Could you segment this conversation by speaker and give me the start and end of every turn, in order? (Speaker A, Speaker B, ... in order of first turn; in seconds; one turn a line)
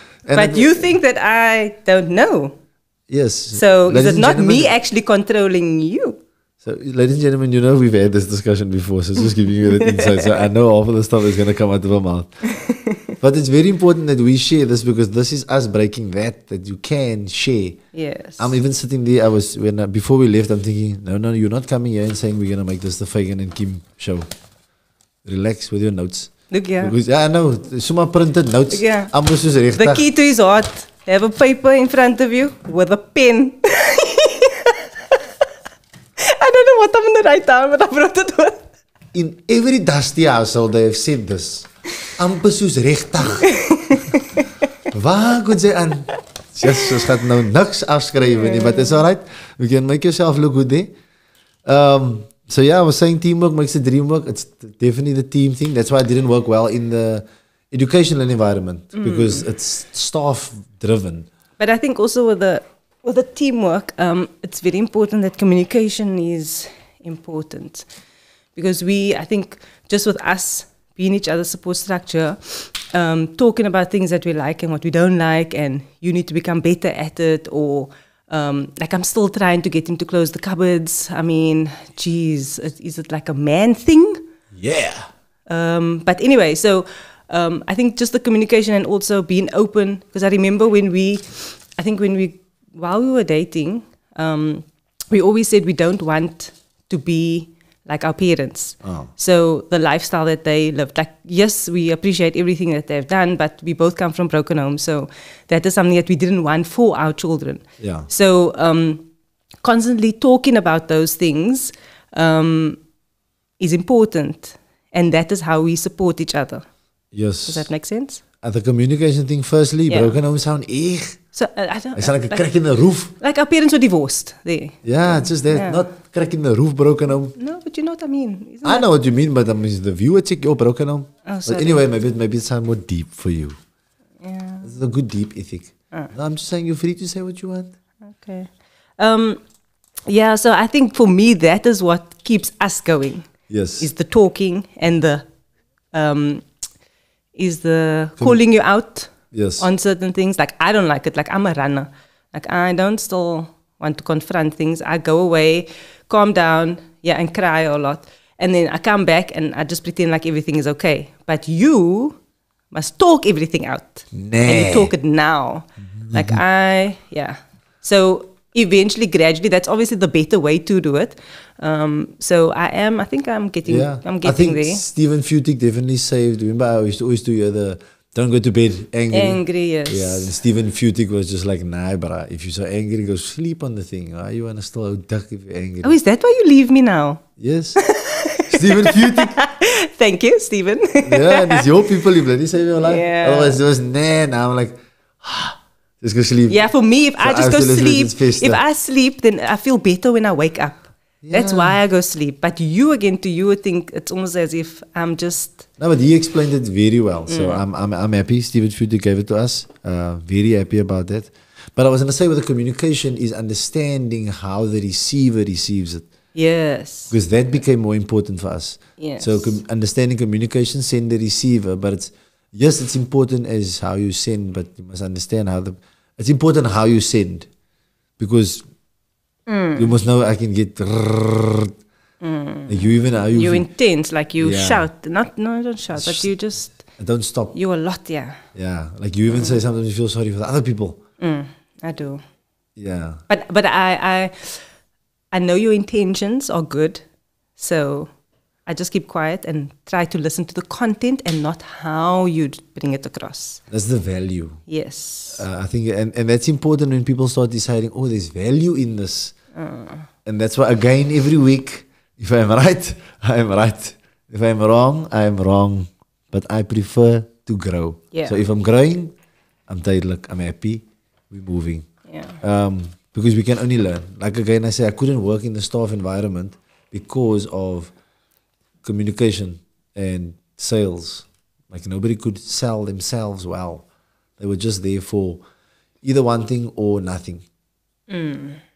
Speaker A: 0.2-0.9
Speaker B: 0.3-2.6
Speaker A: 3.1-4.7
Speaker B: 3.5-6.2
Speaker A: 6.6-12.3
Speaker B: 9.8-10.3
Speaker B: 12.6-13.1
Speaker A: 13.2-17.8
Speaker B: 17.9-18.6
Speaker A: 18.4-24.3
Speaker A: 25.2-30.1
Speaker B: 26.5-26.9
Speaker B: 28.7-29.1
Speaker B: 29.7-35.2
Speaker B: 36.2-38.6
Speaker A: 39.1-43.6
Speaker B: 43.4-44.5
Speaker A: 44.9-50.9
Speaker B: 48.3-49.0
Speaker A: 51.6-61.3
Speaker B: 58.9-59.5
Speaker B: 61.6-67.9
Speaker B: 68.5-84.2
Speaker A: 84.5-85.1
Speaker B: 85.5-109.1
Speaker A: 98.8-99.1
Speaker A: 107.8-108.1
Speaker B: 109.6-112.8
Speaker B: 113.6-116.7
Speaker A: 117.1-117.7
Speaker B: 117.5-118.2
Speaker A: 118.4-121.2
Speaker B: 119.9-120.2
Speaker B: 121.3-122.5
Speaker A: 122.0-123.1
Speaker B: 123.2-125.8
Speaker A: 124.8-127.4
Speaker B: 127.4-128.9
Speaker A: 128.6-133.6
Speaker B: 131.3-131.8
Speaker B: 134.2-134.7
Speaker A: 134.6-137.7
Speaker B: 138.0-139.4
Speaker B: 140.1-145.2
Speaker A: 143.5-143.9
Speaker B: 145.9-146.4
Speaker B: 147.3-162.2
Speaker A: 149.3-149.7
Speaker B: 162.7-174.8
Speaker A: 164.1-164.9
Speaker A: 166.0-166.4
Speaker A: 173.7-185.9
Speaker B: 179.1-180.3
Speaker B: 185.8-187.2
Speaker A: 187.4-187.8
Speaker B: 187.8-191.7
Speaker A: 188.5-189.4
Speaker A: 191.0-196.7
Speaker B: 192.8-193.6
Speaker B: 196.5-205.7
Speaker A: 197.2-198.6
Speaker A: 201.2-201.8
Speaker A: 205.8-216.1
Speaker B: 207.3-207.6
Speaker B: 216.3-217.1
Speaker A: 217.1-227.5
Speaker B: 219.0-219.6
Speaker A: 228.2-228.7
Speaker B: 229.5-229.9
Speaker A: 229.8-231.7
Speaker B: 232.2-236.8
Speaker A: 232.7-233.7
Speaker A: 234.4-234.9
Speaker A: 235.9-237.6
Speaker B: 237.5-238.4
Speaker A: 238.6-241.0
Speaker B: 239.3-239.6
Speaker B: 241.2-242.2
Speaker A: 242.8-243.2
Speaker B: 243.3-244.7
Speaker B: 245.3-247.0
Speaker B: 247.6-248.1
Speaker B: 248.7-253.6
Speaker A: 253.7-254.6
Speaker B: 254.7-255.4
Speaker A: 255.3-259.4
Speaker B: 259.6-260.1
Speaker A: 260.2-269.1
Speaker B: 268.1-268.4
Speaker A: 269.7-271.9
Speaker B: 272.1-272.4
Speaker A: 272.4-277.9
Speaker A: 278.8-283.9
Speaker A: 284.4-285.4
Speaker A: 286.0-287.4
Speaker B: 288.1-288.6